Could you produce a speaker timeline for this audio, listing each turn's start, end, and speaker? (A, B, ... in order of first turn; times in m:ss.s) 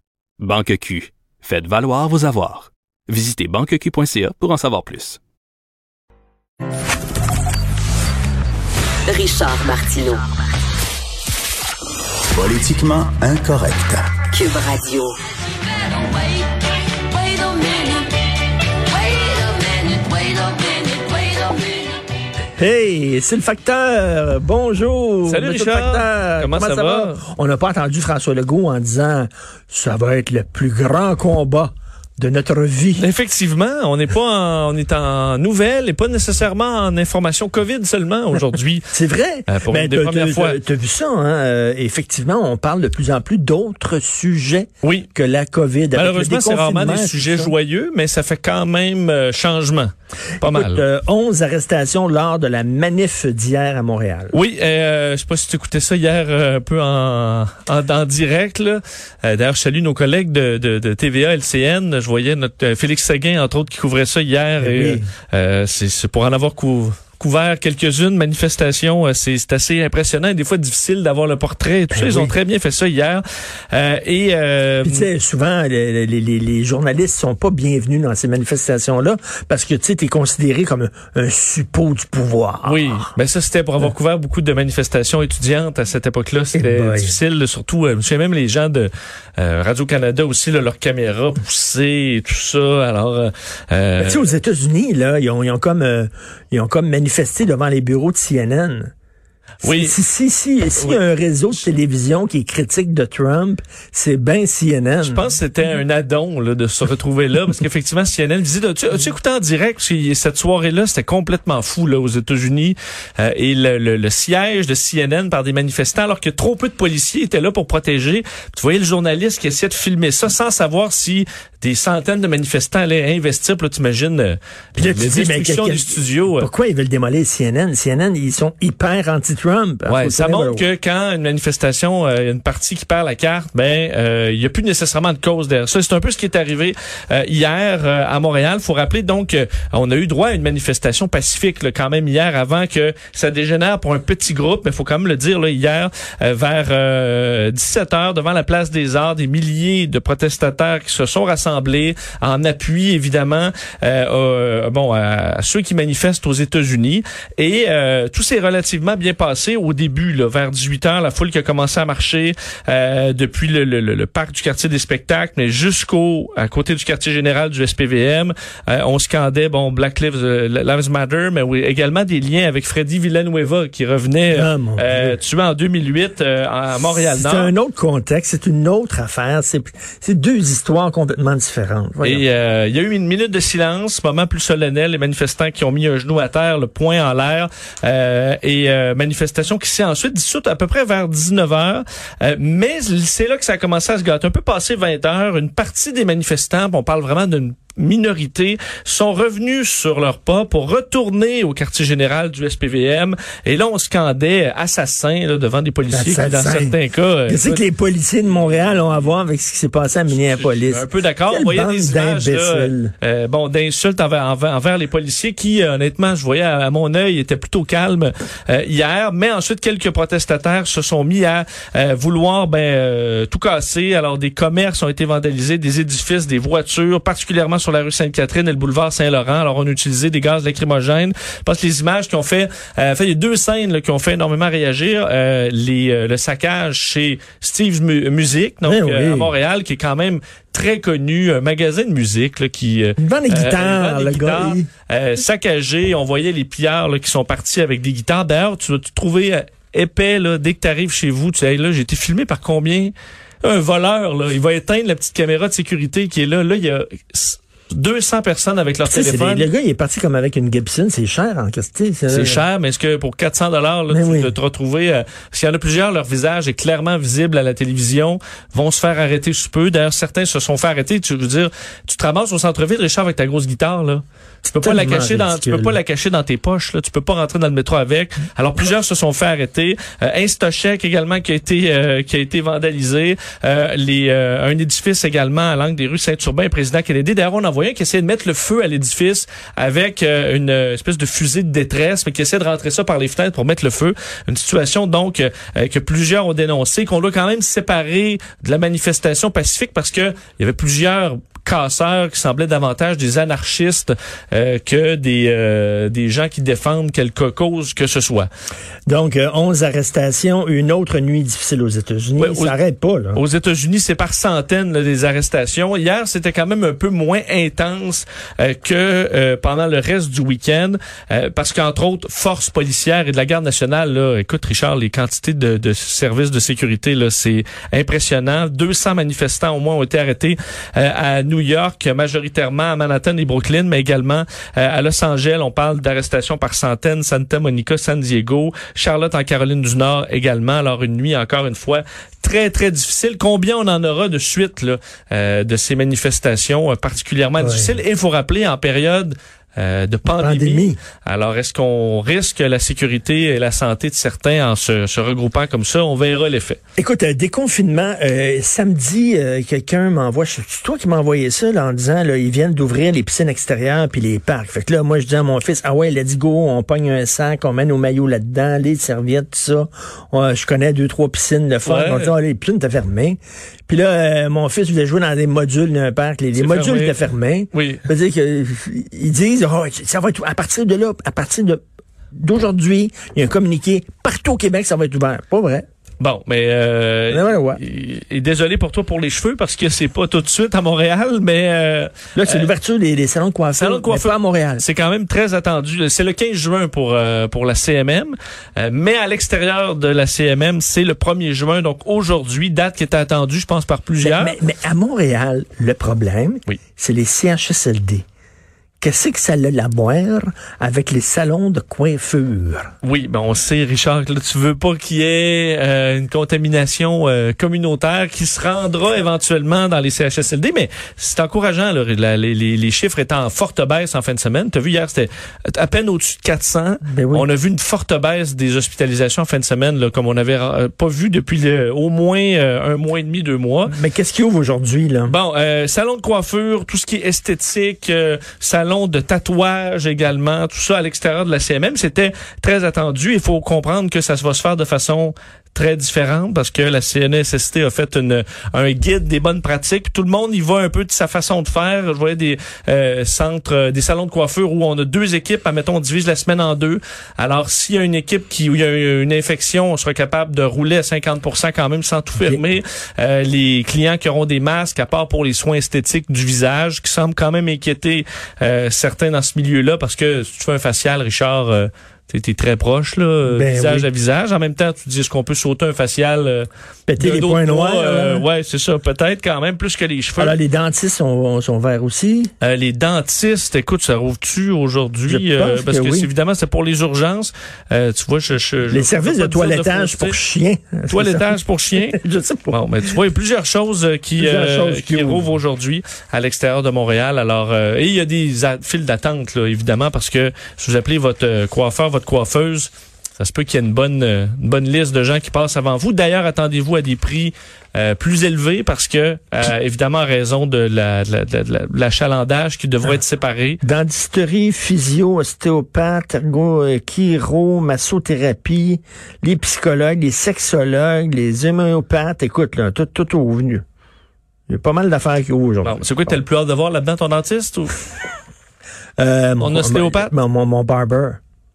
0:00.4-0:05.2 A
0:09.1-0:10.2 B
0:12.3-0:14.3 C
0:14.4-0:15.1 B
0:15.9-0:16.4 B
0:17.1-0:18.1 B
0:18.9-0:21.7 B
0:22.6-0:33.1 D
0:25.3-0:27.2 E
0:33.0-0:38.9 E
0:38.9-0:47.5 D
0:39.5-0:40.6 E
0:44.8-0:45.1 E
0:45.9-0:50.8 E
0:50.4-0:54.3 D
0:54.3-1:15.1 E
1:04.6-1:05.1 D
1:11.9-1:12.4 D
1:14.8-1:23.0 D
1:22.6-1:34.3 E
1:26.6-1:27.2 D
1:34.0-1:38.9 D
1:39.6-1:40.0 E
1:39.6-1:45.3 D
1:45.0-2:06.5 E
2:04.8-2:10.7 D
2:09.9-2:57.5 E
2:54.3-2:55.2 D
2:56.9-3:02.2 D
3:02.0-3:27.6 E
3:25.9-3:26.8 D
3:27.3-3:32.9 D
3:28.3-3:29.1 E
3:30.1-4:19.5 E
3:58.6-3:59.3 D
4:03.0-4:04.7 D
4:18.9-4:22.4 D
4:22.1-4:34.0 E
4:23.9-4:24.3 D
4:34.4-4:35.8 D
4:34.6-5:08.3 E
5:08.9-5:13.2 D
5:12.2-5:12.6 E
5:13.1-5:56.6 E
5:47.4-5:47.8 D
5:50.1-5:50.8 D
5:56.8-6:21.6 D
6:11.6-6:12.2 E
6:16.4-6:17.0 E
6:17.5-6:17.8 E
6:22.2-6:25.7 D
6:26.0-6:32.5 E
6:27.1-6:27.6 D
6:32.2-6:34.6 D
6:33.6-6:44.4 E
6:44.0-6:48.0 D
6:48.8-6:52.7 D
6:52.8-7:13.8 E
7:06.9-7:07.3 D
7:13.7-7:15.2 D
7:15.1-7:56.5 E
7:53.2-7:53.9 D
7:56.9-7:58.2 D
7:57.0-8:00.4 E
8:00.2-8:02.3 D
8:02.4-8:10.2 E
8:05.1-8:06.1 D
8:08.7-8:12.6 D
8:10.9-8:33.6 E
8:14.2-8:15.3 D
8:33.6-8:43.6 D
8:44.5-8:46.1 D
8:45.6-8:47.8 E
8:49.0-8:51.2 D
8:49.4-8:50.1 E